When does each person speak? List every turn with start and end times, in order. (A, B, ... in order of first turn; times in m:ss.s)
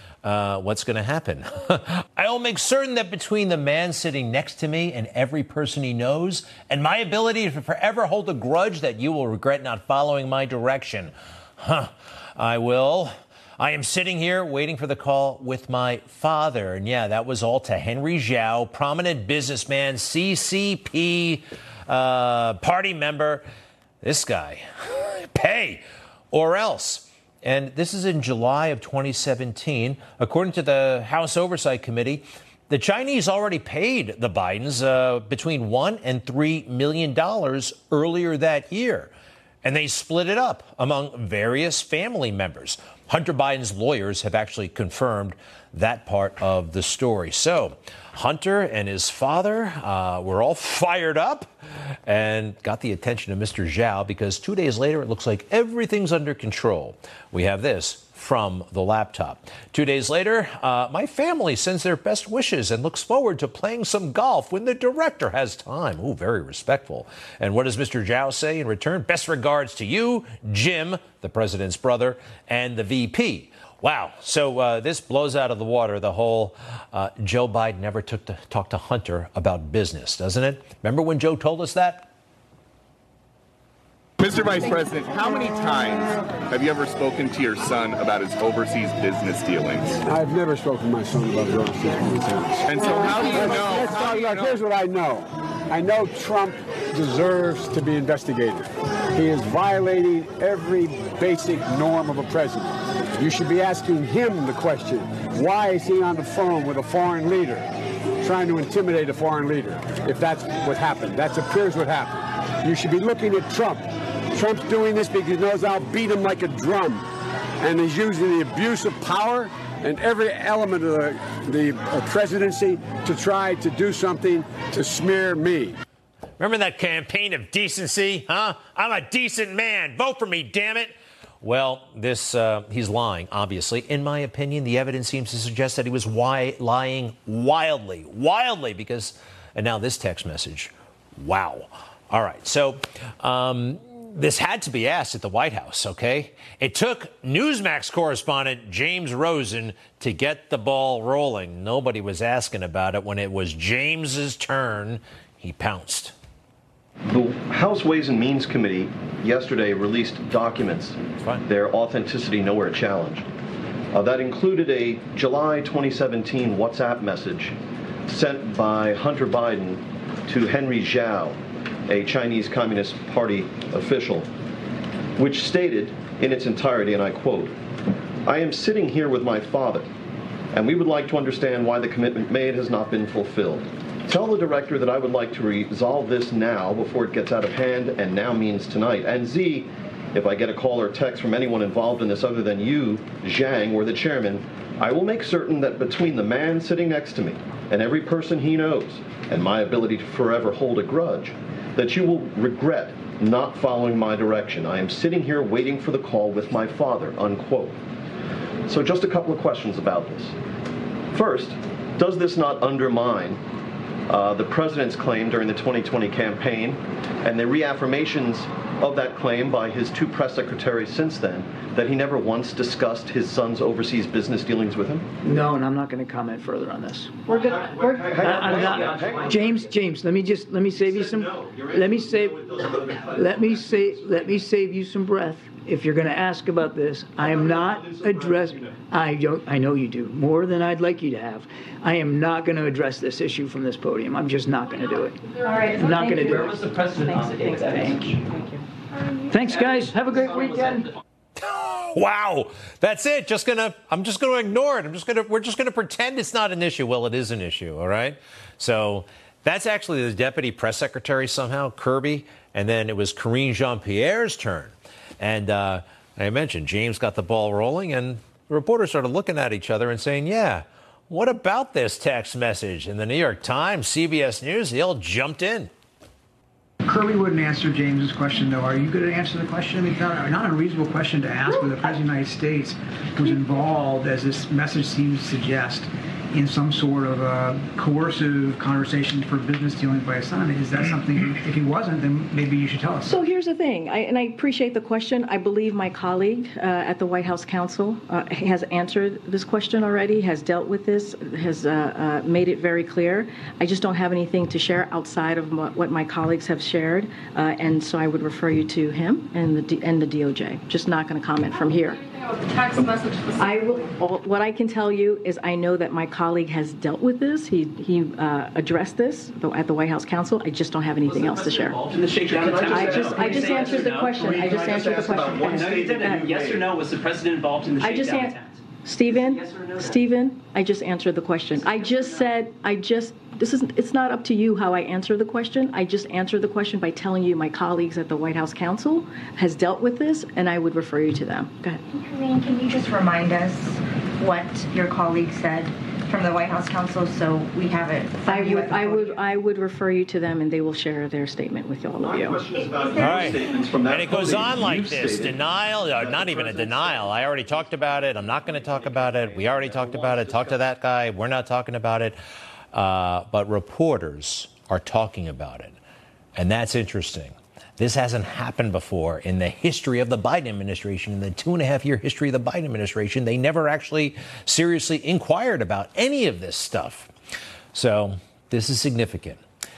0:00.2-0:23.4 A
0:24.0-0:39.1 A
0:39.6-0:51.5 A
0:52.0-1:22.1 A
1:24.2-1:30.0 B
1:30.0-1:47.7 C
1:32.6-1:34.6 B
1:48.2-1:57.1 C
1:57.6-2:05.8 C
2:06.4-2:36.1 A
2:37.1-2:43.2 D
2:43.9-2:47.5 D
2:48.1-2:54.3 D
2:55.2-2:57.6 D
2:58.2-2:59.9 D
3:00.5-3:27.8 D
3:28.6-3:30.3 D
3:31.1-3:33.4 D
3:34.1-3:45.1 D
3:45.2-4:06.6 E
3:47.3-3:48.6 F
3:47.9-3:49.4 D
4:05.4-4:08.6 F
4:06.6-4:08.2 G
4:09.3-4:10.9 E
4:11.5-4:35.7 A
4:36.8-4:53.2 H
4:53.0-5:12.1 F
5:13.4-5:21.8 F
5:21.0-5:28.5 G
5:22.2-5:26.5 D
5:22.6-5:26.6 F
5:27.8-5:41.8 F
5:29.1-5:30.0 G
5:41.9-5:49.2 I
5:48.2-5:52.5 F
5:52.0-5:57.4 D
5:52.8-5:53.4 I
5:53.0-6:02.2 A
5:59.6-6:00.4 D
6:02.7-6:05.8 A
6:06.4-6:17.1 A
6:17.7-6:19.4 A